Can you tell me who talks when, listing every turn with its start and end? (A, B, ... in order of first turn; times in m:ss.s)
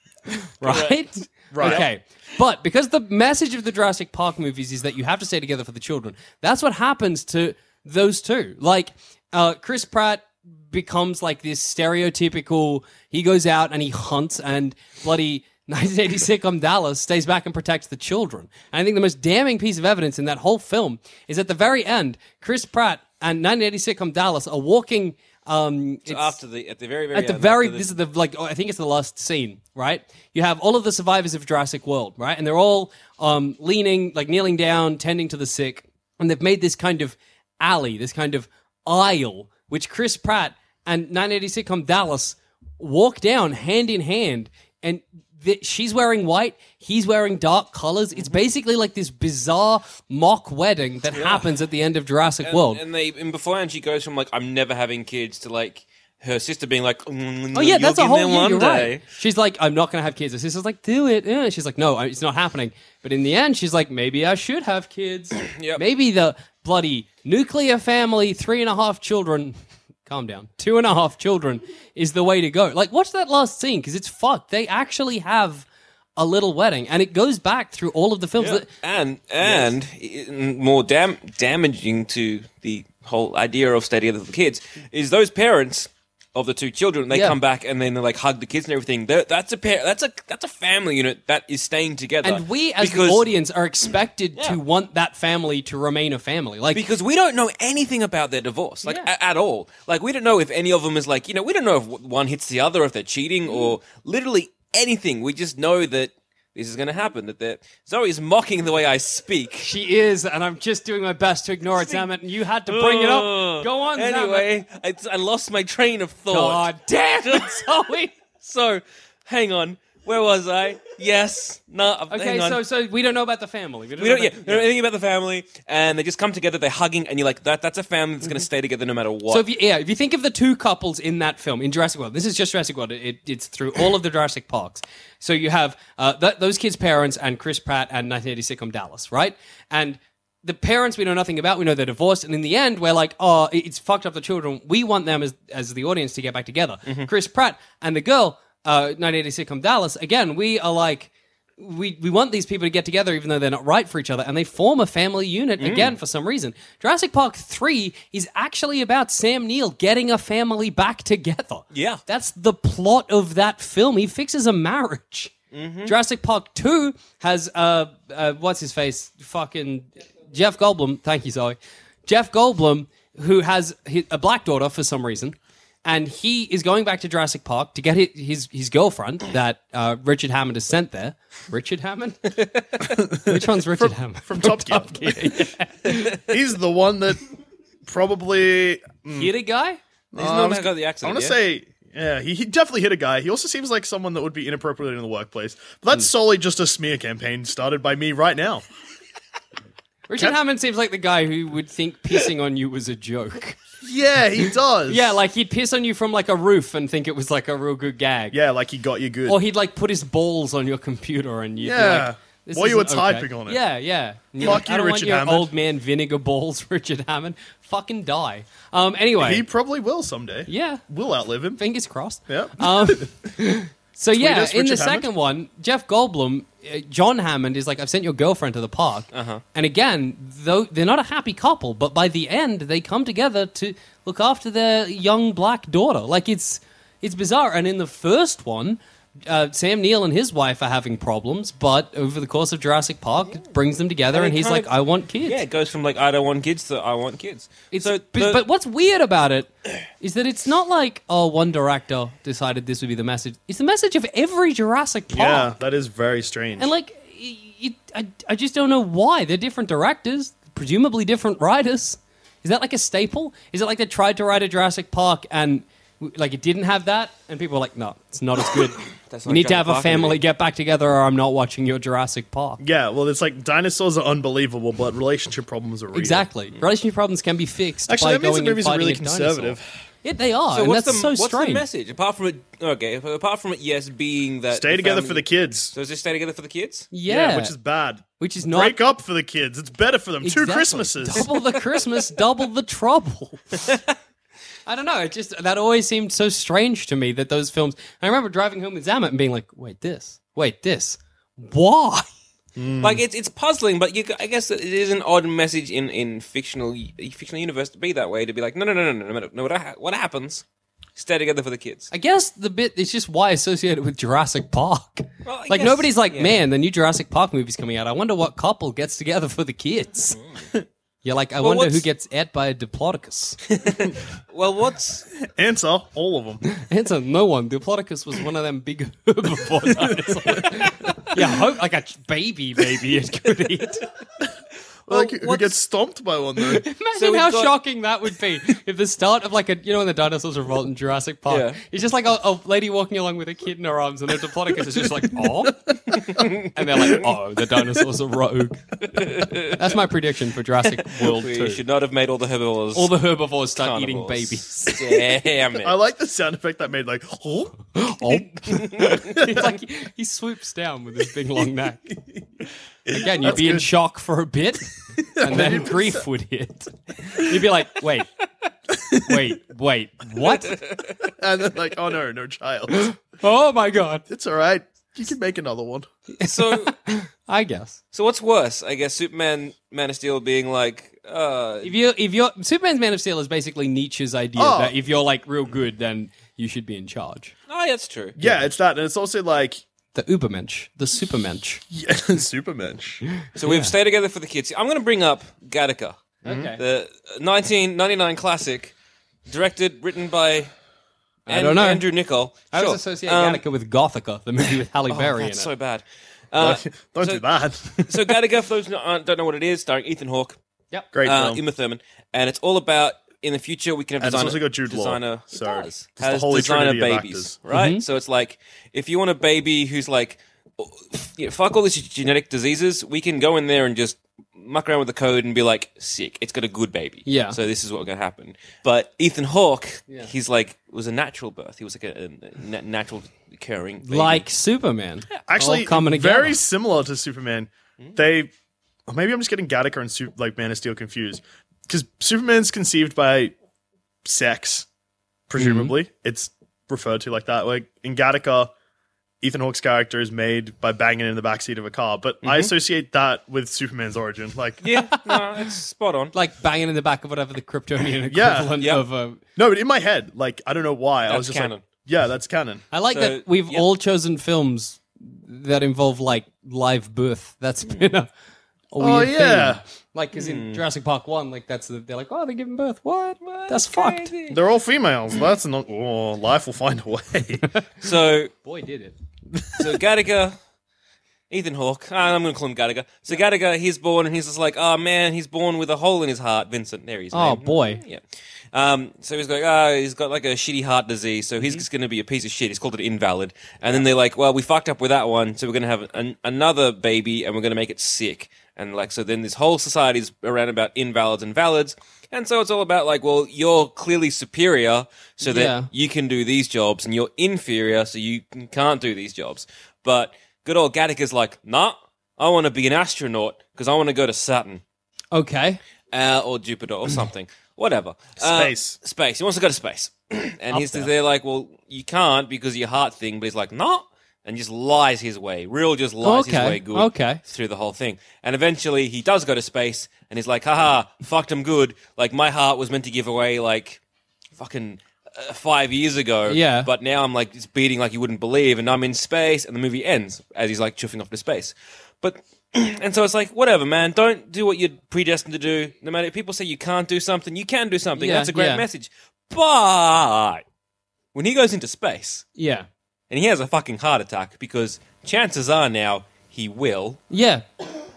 0:00.4-0:26.4 A
0:00.6-0:01.1 B
0:01.5-0:01.8 C
0:01.6-0:01.8 B
0:26.1-0:27.9 B
0:27.1-0:52.8 A
0:51.1-0:51.5 B
0:52.4-0:59.0 B
0:57.5-1:15.6 A
1:05.4-1:05.8 B
1:16.2-1:18.7 A
1:18.4-1:33.3 B
1:19.4-1:19.7 A
1:27.1-1:27.4 A
1:32.2-1:36.8 A
1:36.7-1:49.7 B
1:49.6-1:54.5 A
1:51.7-1:52.1 B
1:52.6-2:02.6 B
1:56.3-1:58.1 A
2:02.1-2:04.7 A
2:04.0-2:09.5 B
2:09.3-2:45.3 A
2:35.6-2:35.9 B
2:41.7-2:42.0 B
2:45.5-2:45.9 B
2:45.8-3:02.4 A
3:02.8-3:05.4 C
3:03.2-3:06.2 A
3:06.1-3:07.2 C
3:07.8-3:09.3 C
3:09.1-3:09.8 A
3:10.1-3:18.6 C
3:10.2-3:11.4 B
3:20.1-3:23.6 A
3:23.8-3:25.2 C
3:24.4-3:28.4 A
3:28.3-3:29.4 C
3:29.3-3:39.4 A
3:31.6-3:33.6 C
3:34.4-3:35.5 C
3:39.2-3:41.6 C
3:40.5-3:40.8 A
3:41.6-4:05.4 A
3:42.3-3:43.3 C
3:44.1-3:45.1 C
3:49.1-3:49.4 B
4:04.1-4:04.7 B
4:05.2-4:08.4 B
4:07.7-4:15.5 A
4:15.1-4:16.7 C
4:16.6-4:32.6 A
4:29.1-4:30.2 B
4:32.6-4:36.3 C
4:35.9-4:41.6 A
4:37.9-4:39.7 C
4:40.5-4:46.9 B
4:44.5-4:45.7 C
4:46.9-4:47.5 A
4:47.1-4:51.3 C
4:48.2-4:48.8 A
4:50.2-4:53.7 A
4:54.6-5:02.1 A
5:02.6-5:03.0 C
5:02.8-5:10.4 B
5:11.0-5:11.9 B
5:11.9-5:20.2 A
5:15.2-5:16.4 B
5:21.0-5:23.4 A
5:21.4-5:21.8 B
5:23.5-5:25.0 B
5:25.2-5:26.4 C
5:26.5-5:33.8 A
5:34.9-5:36.6 C
5:34.9-5:35.4 A
5:36.5-5:48.6 A
5:36.9-5:37.6 B
5:41.3-5:41.6 B
5:45.9-5:47.0 B
5:48.8-5:49.8 B
5:49.5-5:51.6 A
5:50.6-5:55.7 B
5:52.7-5:54.8 A
5:55.6-5:57.6 C
5:57.7-6:01.8 A
5:58.4-5:59.1 B
6:02.8-6:03.7 C
6:02.9-6:08.1 A
6:05.2-6:06.0 C
6:08.8-6:09.2 C
6:09.0-6:10.6 A
6:10.2-6:11.0 B
6:11.0-6:12.9 C
6:12.7-6:14.0 A
6:14.1-6:15.9 C
6:16.2-6:17.8 A
6:16.3-6:16.8 B
6:17.9-6:21.7 B
6:21.6-6:27.3 A
6:24.4-6:24.8 C
6:27.5-6:28.2 B
6:28.2-6:29.6 C
6:29.9-6:31.6 A
6:31.7-6:33.0 C
6:33.1-6:33.7 A
6:33.4-6:38.7 B
6:36.2-6:36.6 A
6:39.3-6:40.5 B
6:41.3-6:41.8 A
6:41.3-6:43.4 B
6:42.5-6:45.5 A
6:44.9-6:47.2 B
6:46.4-6:48.2 C
6:47.8-6:50.4 B
6:50.9-6:51.4 C
6:51.0-7:14.2 B
6:54.0-6:57.3 C
6:57.5-6:57.8 A
7:07.0-7:07.4 A
7:13.8-7:16.4 A
7:15.3-7:18.3 C
7:18.9-7:23.3 C
7:24.0-7:24.7 C
7:25.3-7:28.5 C
7:25.4-7:25.7 A
7:29.2-7:34.6 C
7:32.2-7:32.5 B
7:34.6-7:36.1 B
7:34.7-7:35.2 A
7:36.1-7:39.2 A
7:38.1-7:38.6 C
7:38.6-7:38.8 B
7:39.4-7:42.6 C
7:41.1-7:41.6 B
7:42.7-7:48.1 A
7:42.9-7:43.7 B
7:47.6-7:47.9 B
7:48.7-7:54.1 A
7:48.8-7:49.6 C
7:50.1-7:50.6 B
7:53.2-7:54.4 B
7:54.3-7:57.4 C
7:57.8-7:58.3 B
7:58.4-7:58.9 A
7:59.3-7:59.8 C
7:59.6-8:00.4 B
8:01.3-8:08.0 B
8:07.1-8:07.8 A
8:08.5-8:34.6 B
8:25.2-8:25.7 A
8:35.1-8:35.6 A
8:35.9-8:53.8 B
8:38.2-8:38.8 C
8:40.5-8:40.9 A
8:46.0-8:47.2 A
8:54.4-9:10.4 B
8:56.3-8:56.7 A
9:08.0-9:08.6 A
9:11.1-9:12.2 B
9:12.4-9:12.7 A
9:13.1-9:17.0 B
9:17.1-9:17.4 A